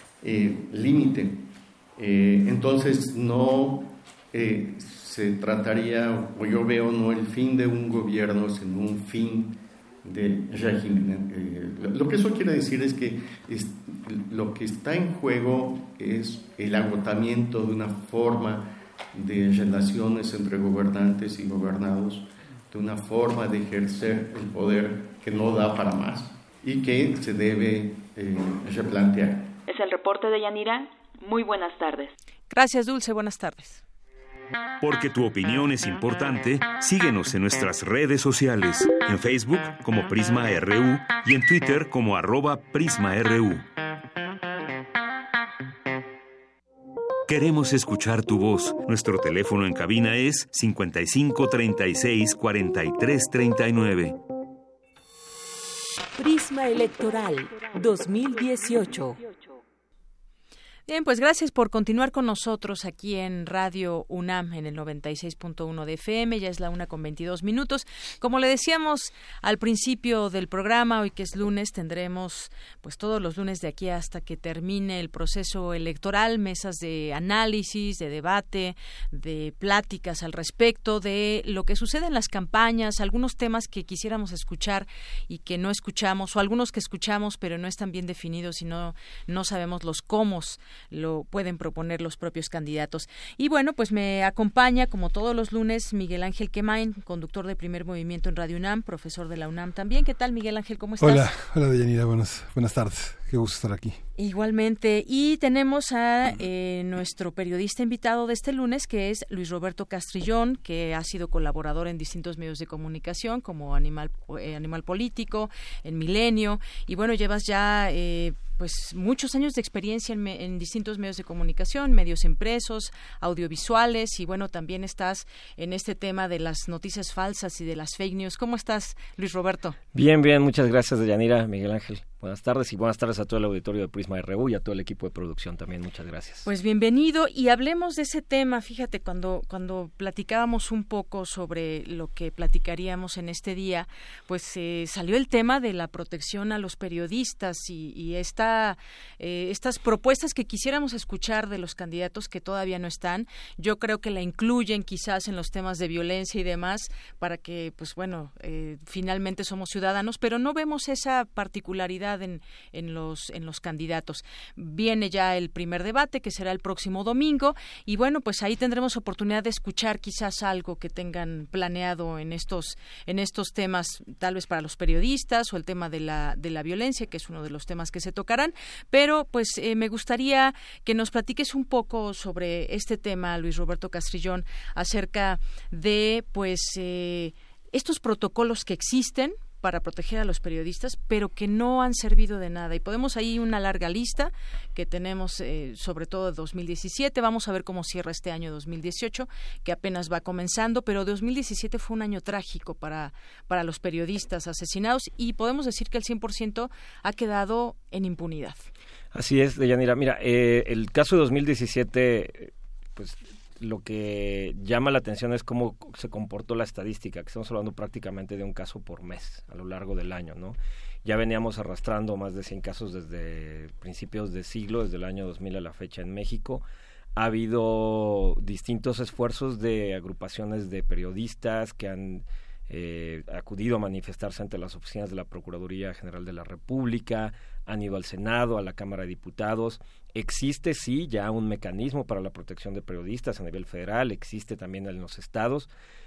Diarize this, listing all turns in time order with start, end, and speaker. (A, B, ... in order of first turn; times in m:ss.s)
0:00.2-0:29.6 A
0:29.7-0:32.1 B
0:32.5-0:33.8 C
0:34.8-0:43.7 D
0:47.3-0:54.2 D
0:56.2-0:59.2 E
1:00.9-1:41.3 C
1:41.0-1:44.0 F
1:44.2-2:09.8 C
2:09.9-2:16.4 G
2:16.4-3:28.7 C
3:29.1-3:46.6 G
3:47.2-4:05.7 G